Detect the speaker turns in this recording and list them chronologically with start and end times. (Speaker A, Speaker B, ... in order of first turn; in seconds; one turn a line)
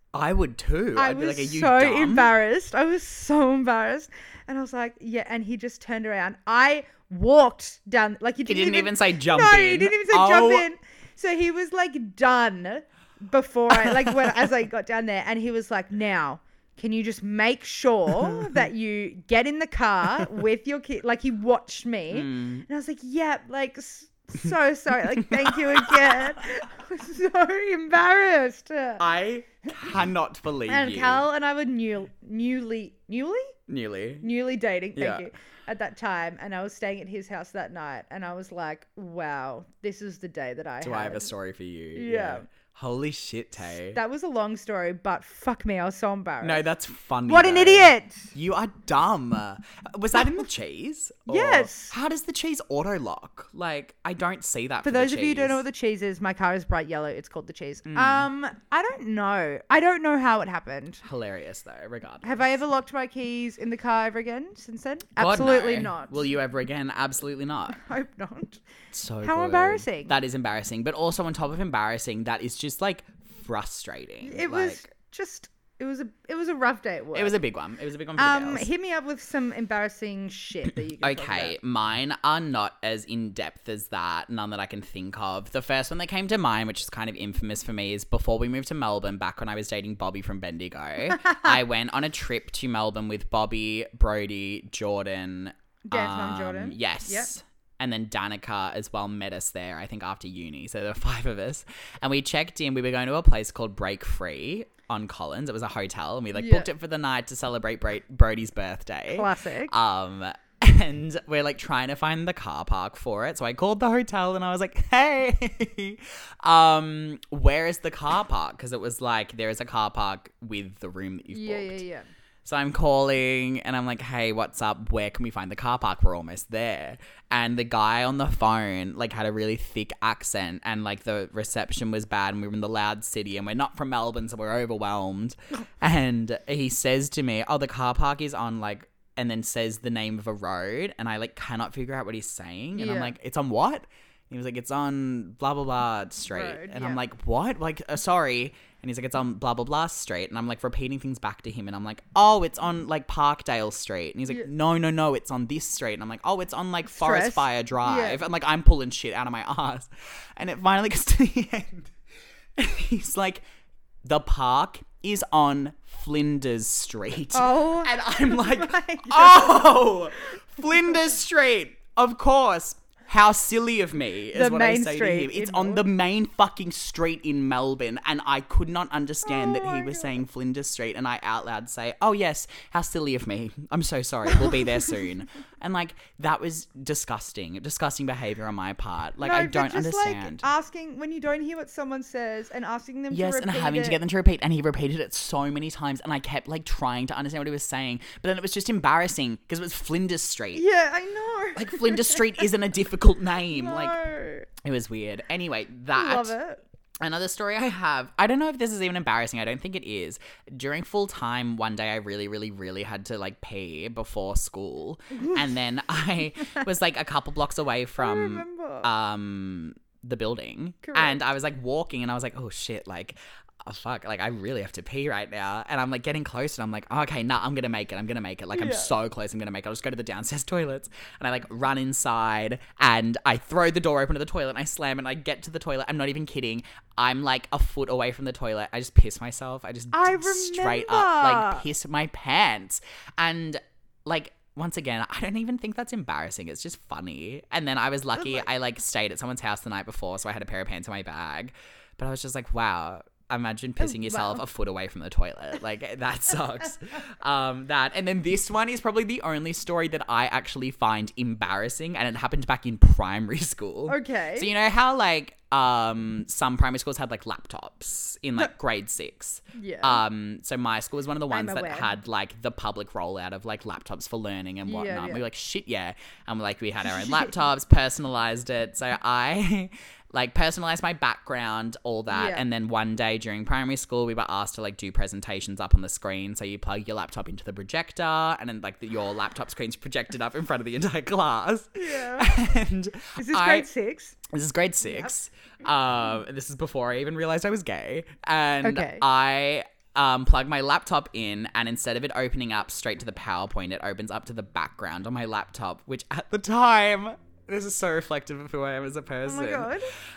Speaker A: 0.1-2.3
Speaker B: 0.9-29.0
Speaker A: 8.4-10.7
Speaker A: 13.7-14.4
Speaker A: 18.2-18.6
Speaker A: 22.1-22.6
Speaker A: 25.1-26.4
Speaker A: 29.0-31.2
Speaker B: 30.7-33.5
Speaker A: 33.7-34.2
Speaker B: 34.2-41.3
Speaker A: 35.0-35.3
Speaker A: 40.8-44.0
Speaker B: 41.9-42.5
Speaker B: 43.9-46.6
Speaker A: 46.4-55.6
Speaker B: 47.2-48.3
Speaker B: 51.3-51.9
Speaker B: 54.8-61.0
Speaker A: 57.8-58.3
Speaker A: 61.0-62.5
Speaker B: 62.2-66.2
Speaker A: 65.2-67.8
Speaker B: 67.7-68.6
Speaker A: 68.9-74.8
Speaker B: 69.2-70.1
Speaker B: 74.2-77.4
Speaker A: 77.1-78.7
Speaker B: 78.2-81.5
Speaker A: 81.0-121.8
Speaker B: 91.2-91.5
Speaker B: 95.9-97.3
Speaker B: 106.3-106.7
Speaker B: 109.1-109.7
Speaker B: 121.3-122.1
Speaker A: 122.4-161.9
Speaker B: 142.8-143.1
Speaker B: 146.3-147.0
Speaker B: 156.8-158.2
Speaker A: 162.6-163.4
Speaker A: 164.0-190.5
Speaker B: 167.3-169.9
Speaker B: 174.3-175.8
Speaker B: 179.2-180.1
Speaker B: 189.2-194.0
Speaker A: 193.1-200.6
Speaker B: 200.5-202.4
Speaker A: 201.6-203.9
Speaker B: 203.5-204.5
Speaker A: 204.6-206.3
Speaker B: 205.9-206.6
Speaker A: 207.0-293.7
Speaker B: 218.0-218.9
Speaker B: 220.8-221.2
Speaker B: 228.5-228.9
Speaker B: 239.9-241.6
Speaker B: 253.9-254.4
Speaker B: 263.9-264.5
Speaker B: 269.5-270.0
Speaker B: 271.3-271.9
Speaker B: 274.6-275.2
Speaker B: 282.1-282.4
Speaker B: 291.7-292.4
Speaker B: 293.1-294.2
Speaker A: 294.3-309.7
Speaker B: 294.8-295.1
Speaker B: 298.6-299.0
Speaker B: 309.2-309.9